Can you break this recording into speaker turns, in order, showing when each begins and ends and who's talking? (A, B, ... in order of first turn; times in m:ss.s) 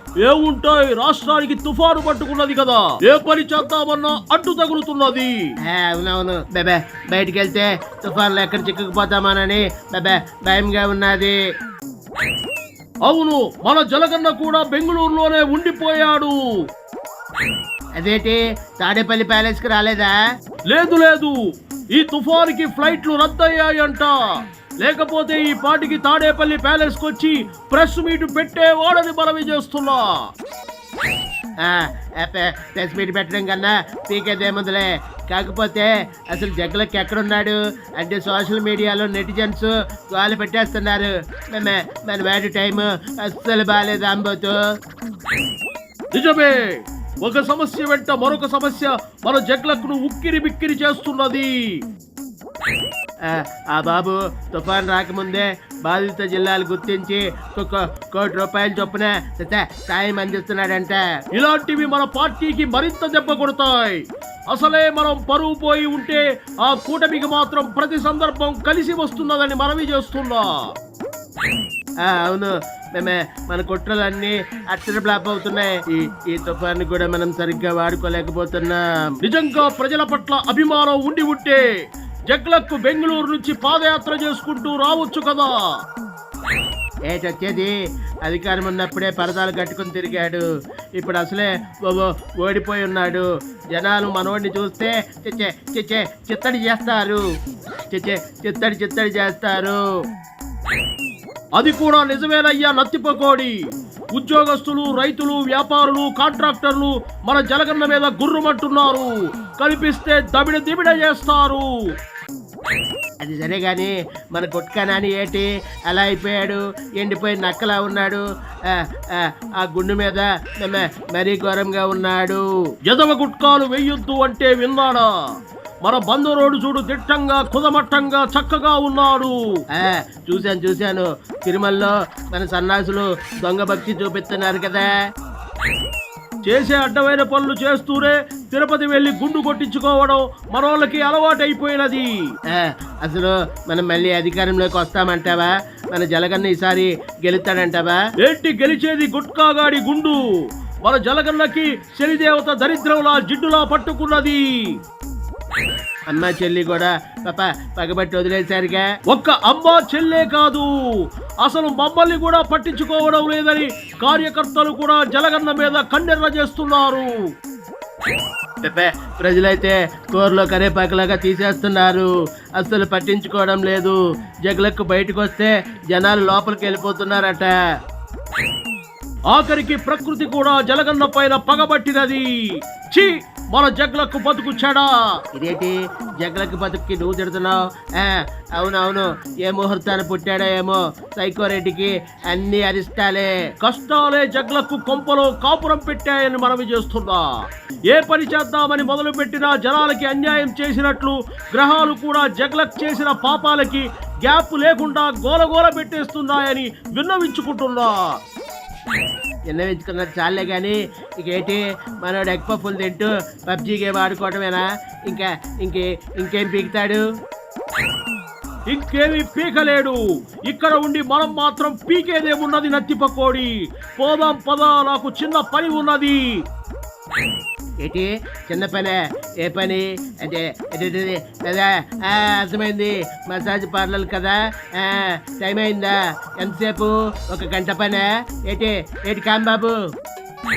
0:00.2-0:05.4 A
0:05.6-0:11.4 B
0:13.0-0:16.4 A
0:18.0-0:20.1 B
0:20.7-0:21.3 A
0:21.9-0:24.2 A
0:24.8-0:30.1 A
0:31.6-0:44.6 B
0:46.1-0:51.8 A
0:53.3-1:01.0 B
1:01.3-1:10.5 A
1:12.1-1:18.8 B
1:19.2-1:21.6 A
1:22.3-1:25.6 A
1:27.1-1:27.7 B
1:28.2-1:30.4 B
1:31.0-1:37.2 B
1:37.9-1:39.8 B
1:41.6-1:43.6 A
1:44.1-1:51.7 A
1:53.2-1:58.2 B
1:58.7-2:02.4 B
2:02.8-2:05.1 A
2:05.8-2:09.3 A
2:09.7-2:14.9 B
2:16.4-2:22.1 A
2:22.5-2:28.0 B
2:28.2-2:30.2 A
2:30.8-2:34.4 A
2:36.1-2:38.9 B
2:39.1-2:40.7 A
2:41.4-2:47.1 A
2:48.6-2:57.5 B
2:59.3-3:02.3 A
3:02.9-3:04.9 A
3:05.3-3:13.3 B
3:13.6-3:17.3 A
3:17.9-3:28.1 A
3:29.5-3:37.0 B
3:38.7-3:46.4 A
3:47.8-3:59.7 B